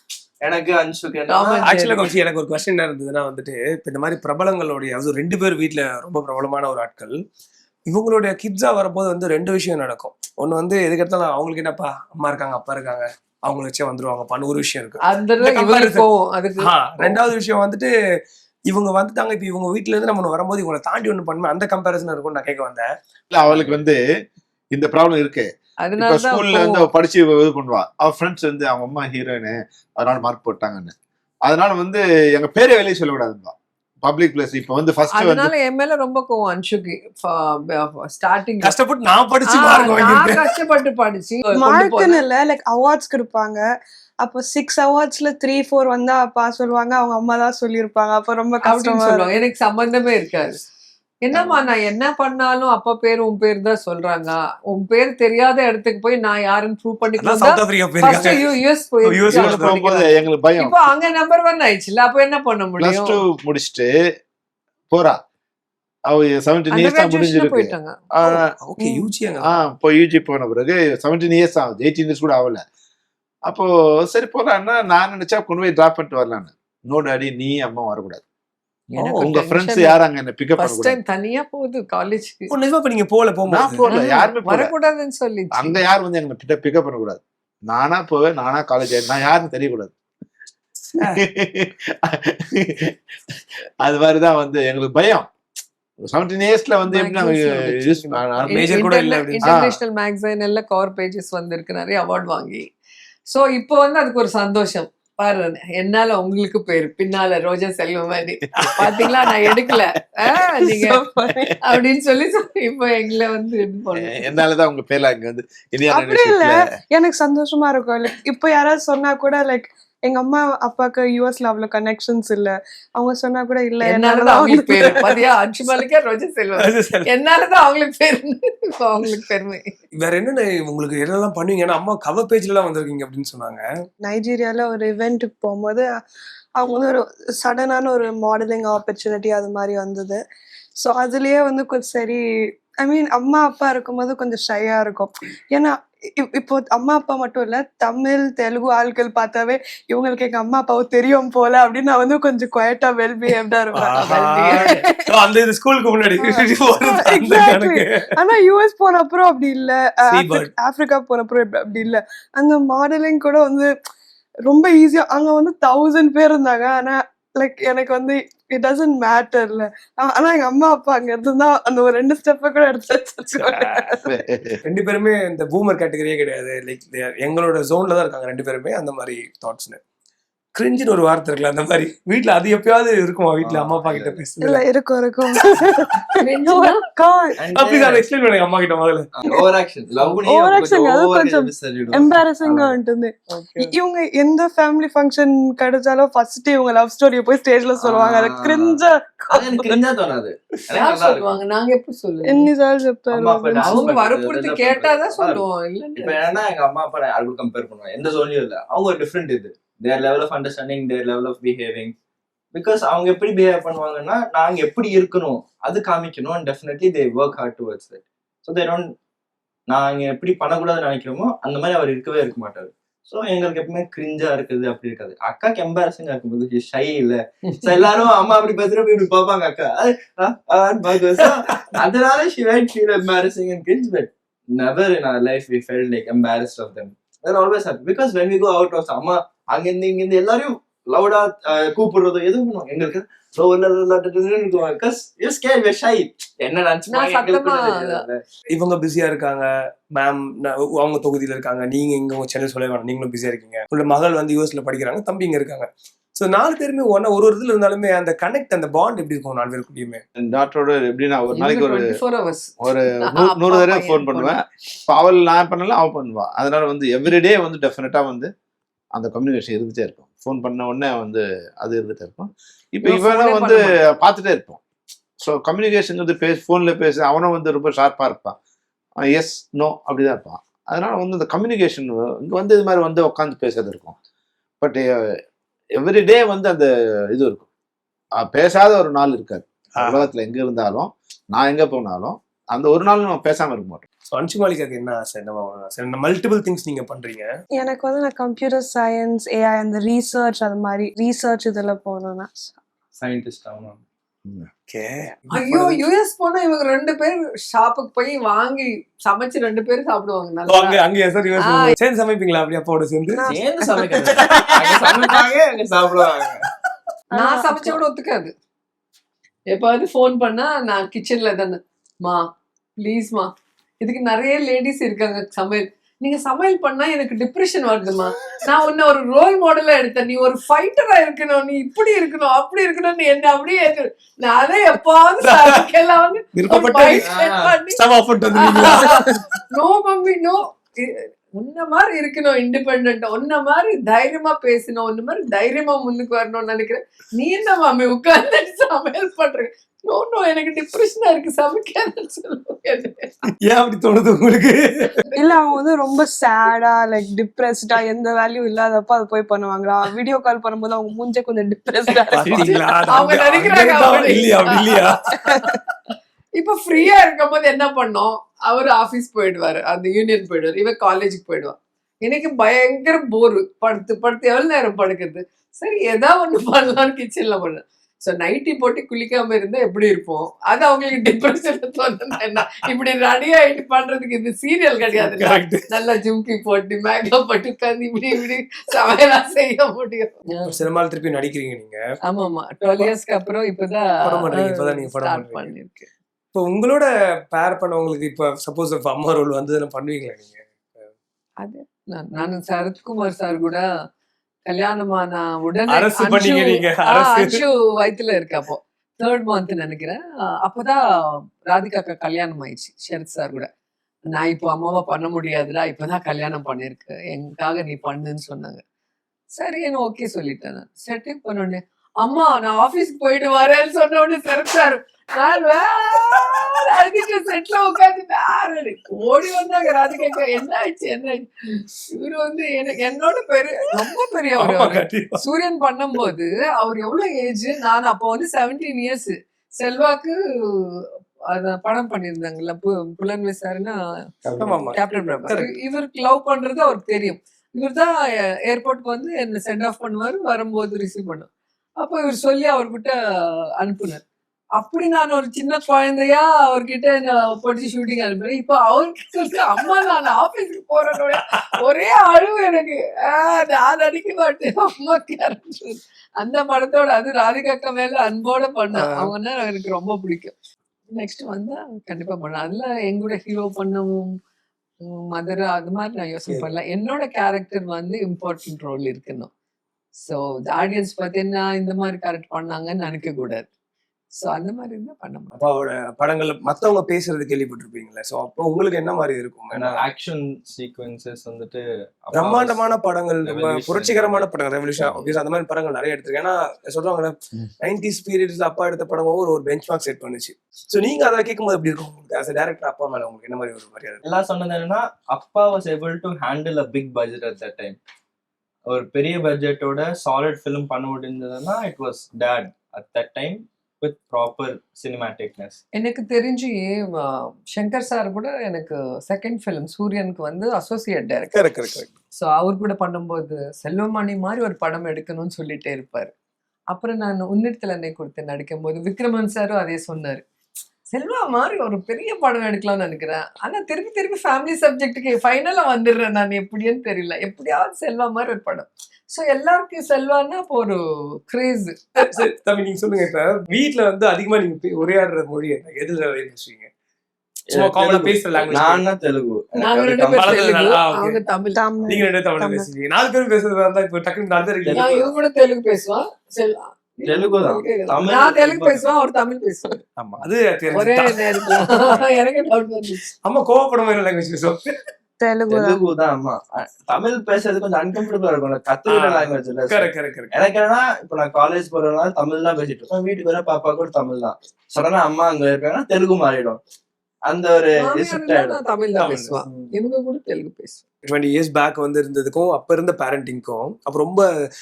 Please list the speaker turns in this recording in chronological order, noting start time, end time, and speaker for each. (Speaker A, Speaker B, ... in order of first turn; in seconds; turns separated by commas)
Speaker A: 0.4-1.6, Speaker B: 1.3-2.1, Speaker C: 1.6-7.2, Speaker C: 7.9-16.1, Speaker B: 15.0-17.2, Speaker C: 16.6-17.9, Speaker C: 18.7-22.9, Speaker D: 23.3-24.0, Speaker D: 24.7-30.9, Speaker B: 25.8-26.9, Speaker D: 31.4-35.5, Speaker B: 35.1-38.8, Speaker C: 38.6-40.6, Speaker B: 39.5-42.2, Speaker E: 41.5-43.6, Speaker E: 44.2-49.3, Speaker B: 48.6-50.6, Speaker B: 51.2-63.2, Speaker C: 57.2-59.7, Speaker D: 59.3-60.8, Speaker D: 62.8-63.9, Speaker D: 64.9-65.2, Speaker D: 66.1-68.5, Speaker B: 66.7-68.3, Speaker C: 68.6-69.5, Speaker E: 68.8-69.0, Speaker D: 69.5-72.6, Speaker D: 73.5-78.2, Speaker B: 78.9-80.0, Speaker C: 79.0-79.3, Speaker D: 79.2-81.0, Speaker B: 80.6-82.5, Speaker C: 82.5-83.9, Speaker D: 83.5-84.7, Speaker B: 83.8-85.8, Speaker D: 85.5-89.9, Speaker C: 90.9-91.2, Speaker D: 91.0-93.0, Speaker D: 93.8-95.3, Speaker D: 96.0-98.7, Speaker B: 96.9-102.7, Speaker C: 98.5-99.5, Speaker D: 99.5-99.7, Speaker B: 103.3-111.0, Speaker C: 108.5-109.2, Speaker E: 110.6-111.6, Speaker B: 111.6-114.3, Speaker D: 113.9-116.7, Speaker E: 115.9-125.2, Speaker B: 123.8-129.7, Speaker C: 126.6-127.1, Speaker C: 130.0-133.6, Speaker E: 134.0-135.9, Speaker E: 136.6-140.2, Speaker E: 140.8-142.2, Speaker E: 142.8-155.0, Speaker C: 153.7-158.1, Speaker B: 154.0-154.7, Speaker E: 156.2-163.7, Speaker C: 160.1-160.5, Speaker E: 164.4-174.2, Speaker C: 173.3-173.8, Speaker D: 174.0-174.6, Speaker C: 174.6-179.8, Speaker C: 180.5-184.6, Speaker A: 183.4-184.2, Speaker E: 184.4-187.4, Speaker C: 185.3-185.6, Speaker B: 186.2-186.8, Speaker A: 187.4-188.0, Speaker C: 187.5-189.1, Speaker A: 189.1-192.8, Speaker E: 190.2-199.7, Speaker C: 193.3-193.6, Speaker A: 197.8-201.3, Speaker B: 200.7-202.5, Speaker E: 202.3-203.8, Speaker A: 203.1-205.4, Speaker B: 203.6-206.2, Speaker A: 205.9-211.9, Speaker A: 212.5-218.9, Speaker A: 219.7-248.2, Speaker B: 227.5-227.8, Speaker C: 231.5-231.8, Speaker B: 246.9-248.0, Speaker C: 248.5-260.0, Speaker D: 260.1-261.9, Speaker B: 261.3-264.3, Speaker D: 262.6-268.3, Speaker D: 268.9-274.6, Speaker B: 272.8-273.8, Speaker D: 275.2-278.4, Speaker D: 279.0-284.0, Speaker D: 284.6-285.1, Speaker D: 285.7-287.5, Speaker D: 288.1-293.9, Speaker C: 289.8-290.1, Speaker C: 294.1-297.3, Speaker E: 297.6-302.5, Speaker A: 303.0-303.8, Speaker C: 304.6-305.8, Speaker B: 305.3-310.8, Speaker C: 310.5-313.3, Speaker B: 311.4-311.7, Speaker E: 313.1-315.2, Speaker A: 313.3-316.5, Speaker C: 314.0-314.5, Speaker E: 317.1-317.8, Speaker B: 317.1-318.3, Speaker B: 319.5-322.2, Speaker B: 322.8-337.8, Speaker C: 335.2-335.6, Speaker C: 336.3-337.1, Speaker A: 337.0-337.6, Speaker C: 337.7-339.4, Speaker B: 338.3-353.2, Speaker C: 353.4-354.9, Speaker E: 355.2-362.6, Speaker C: 362.1-365.1, Speaker B: 362.3-365.5, Speaker B: 366.4-390.6, Speaker C: 385.0-385.7, Speaker C: 390.4-391.8, Speaker B: 392.1-395.9, Speaker C: 394.0-395.5, Speaker C: 396.3-400.9, Speaker B: 401.4-403.6, Speaker B: 404.4-413.5, Speaker C: 405.7-407.4, Speaker B: 414.1-418.6, Speaker B: 419.4-443.8, Speaker C: 434.4-435.2, Speaker B: 444.3-447.9, Speaker C: 444.4-445.5, Speaker B: 448.5-451.3, Speaker B: 451.8-453.0, Speaker B: 453.6-454.0, Speaker B: 454.6-470.3, Speaker C: 461.1-461.5, Speaker C: 468.7-469.1, Speaker B: 470.9-474.1, Speaker B: 474.8-479.3, Speaker B: 480.0-483.5, Speaker B: 484.2-485.3, Speaker C: 485.3-489.8, Speaker A: 489.5-492.6, Speaker C: 492.1-504.0, Speaker A: 493.2-494.2, Speaker A: 504.0-507.8, Speaker A: 508.7-515.6, Speaker B: 515.7-521.3, Speaker C: 521.3-521.9, Speaker B: 522.1-526.1, Speaker B: 526.7-530.2, Speaker B: 530.9-542.2, Speaker C: 542.0-546.7, Speaker C: 547.5-548.8, Speaker A: 547.5-550.4, Speaker B: 549.6-551.6, Speaker C: 550.1-551.2, Speaker E: 551.6-552.7, Speaker C: 551.9-554.9, Speaker A: 554.6-555.1, Speaker B: 554.7-559.8, Speaker A: 557.0-558.9, Speaker A: 560.0-560.2, Speaker C: 560.2-561.9, Speaker B: 560.7-563.1, Speaker C: 563.2-564.7, Speaker E: 565.2-565.8, Speaker A: 565.5-576.6, Speaker C: 568.9-570.3, Speaker A: 577.3-578.6, Speaker B: 577.8-580.8, Speaker C: 579.0-579.3, Speaker A: 579.5-579.7, Speaker C: 581.0-584.2